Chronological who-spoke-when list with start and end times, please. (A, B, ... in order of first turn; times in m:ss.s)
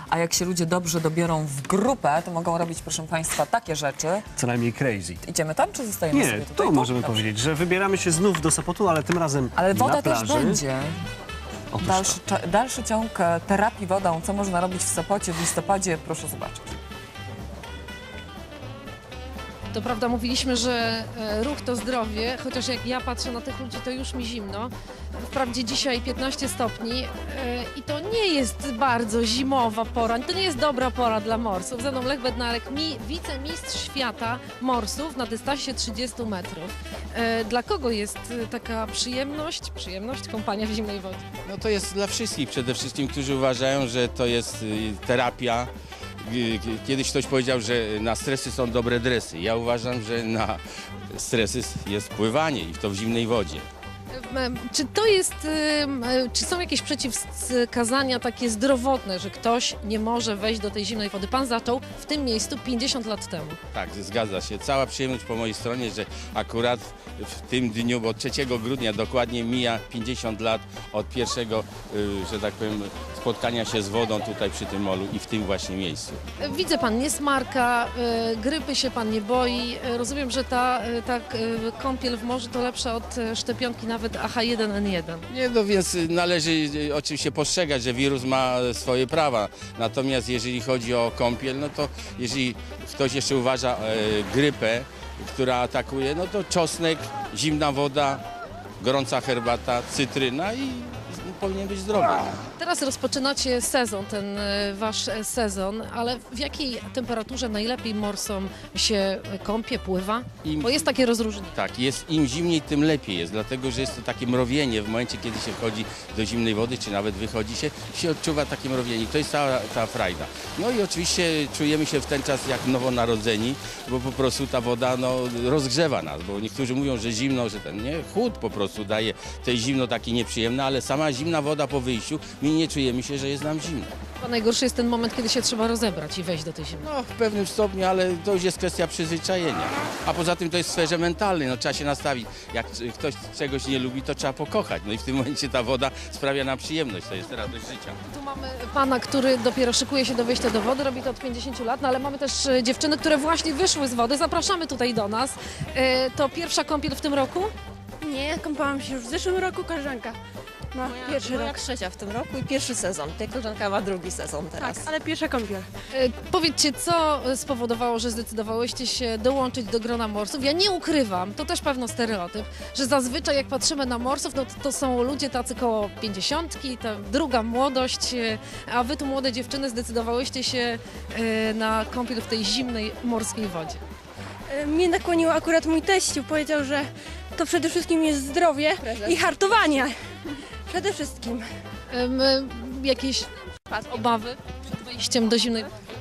0:00.1-0:04.3 A
0:04.4-0:05.2 B
0:05.2-0:07.2 A
0:06.1-0:10.6 B
0:09.6-0:10.9 A
0:11.7-0:12.2 B
0:11.8-0:16.8 A
0:19.7-0:41.2 C
0:41.4-0:45.7 D
0:46.2-0:53.7 D
0:54.1-1:03.6 C
1:03.7-1:16.2 D
1:16.4-1:25.3 C
1:25.3-1:38.2 D
1:38.8-1:42.4 D
1:42.6-1:51.6 C
1:50.4-1:50.9 D
1:51.5-2:13.9 D
2:14.2-2:16.9 C
2:16.8-2:28.0 D
2:28.1-2:37.5 C
2:38.0-2:40.2 E
2:40.8-2:41.5 E
2:40.9-2:44.9 F
2:44.6-2:45.6 E
2:45.9-3:03.8 C
3:04.5-3:06.8 E
3:07.4-3:09.9 E
3:08.8-3:09.8 F
3:10.7-3:11.4 E
3:11.9-3:15.7 C